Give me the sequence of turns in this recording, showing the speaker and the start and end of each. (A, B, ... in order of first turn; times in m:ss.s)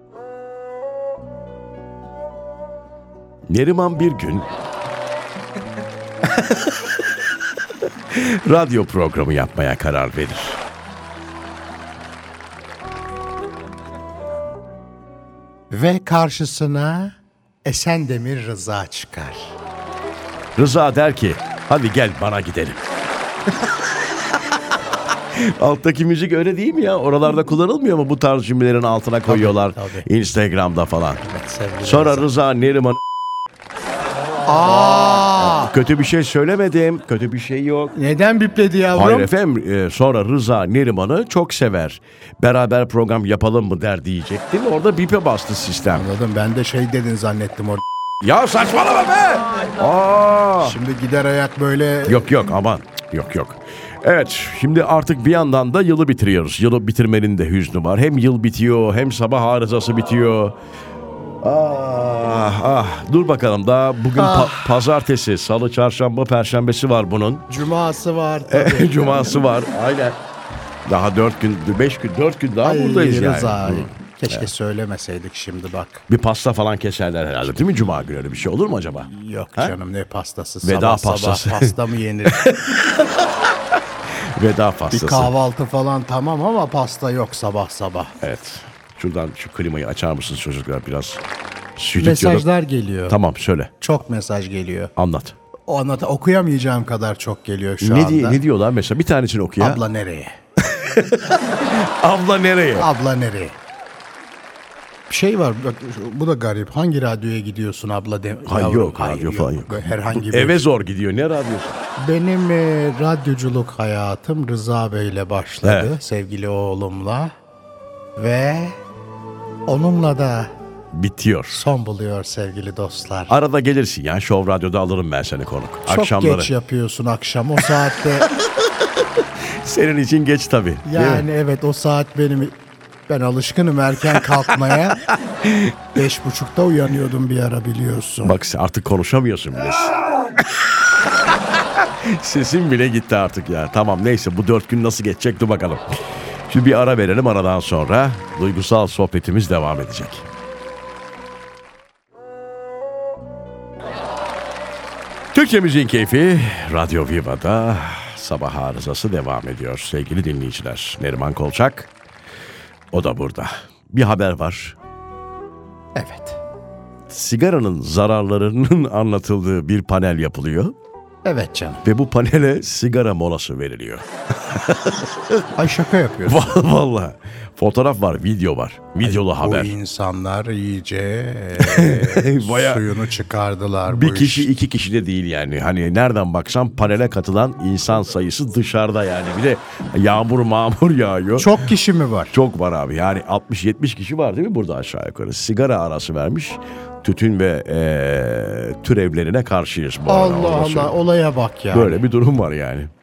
0:03.5-0:04.5 A
0:08.1-0:10.6 A
0:15.7-0:19.6 B
0:20.6-0:22.8 A
0:25.3-0:31.2 A
0:29.3-0:30.1 B
0:31.2-0:32.3 B
0:31.8-0:33.0 A
0:34.4-0:35.7 B
0:34.6-0:38.0 A
0:37.9-0:39.3 B
0:38.9-0:46.1 A
0:45.9-0:47.8 B
0:48.2-0:50.8 A
0:50.6-0:52.3 B
0:52.1-1:00.6 A
1:01.4-1:07.5 A
1:04.2-1:04.8 B
1:07.5-1:09.3 B
1:08.5-1:10.2 A
1:10.9-1:14.5 A
1:12.6-1:16.0 B
1:16.1-1:19.8 A
1:19.0-1:22.5 B
1:20.6-1:21.8 A
1:22.3-1:25.3 A
1:24.9-1:28.2 B
1:28.2-1:31.2 A
1:31.8-1:32.5 A
1:32.0-1:33.2 B
1:33.1-1:33.7 A
1:33.8-1:34.9 B
1:35.0-1:35.4 A
1:35.7-1:38.4 B
1:37.8-1:39.8 A
1:39.6-1:40.3 B
1:40.7-1:42.9 A
1:42.8-1:43.6 B
1:45.1-1:50.7 B
1:48.5-1:51.8 A
1:52.0-1:57.3 B
1:55.6-1:55.9 A
1:58.2-1:58.8 B
1:59.7-2:00.5 B
2:00.9-2:01.6 A
2:01.5-2:03.3 B
2:03.3-2:06.5 A
2:05.9-2:08.3 B
2:09.6-2:11.3 A
2:10.8-2:12.5 B
2:13.1-2:15.1 B
2:15.4-2:15.8 A
2:15.9-2:18.4 B
2:18.2-2:20.4 A
2:21.5-2:25.8 A
2:26.5-2:30.2 A
2:35.3-2:41.9 A
2:42.9-2:44.8 A
2:46.0-2:46.4 B
2:47.1-2:50.7 A
2:51.2-2:51.8 B
2:51.8-2:55.5 A
2:55.6-2:56.6 B
2:56.3-2:59.7 A
2:59.0-3:04.5 B
3:01.6-3:02.9 A
3:03.9-3:11.7 A
3:11.4-3:12.4 B
3:12.3-3:21.0 A
3:20.1-3:22.0 B
3:21.7-3:22.9 A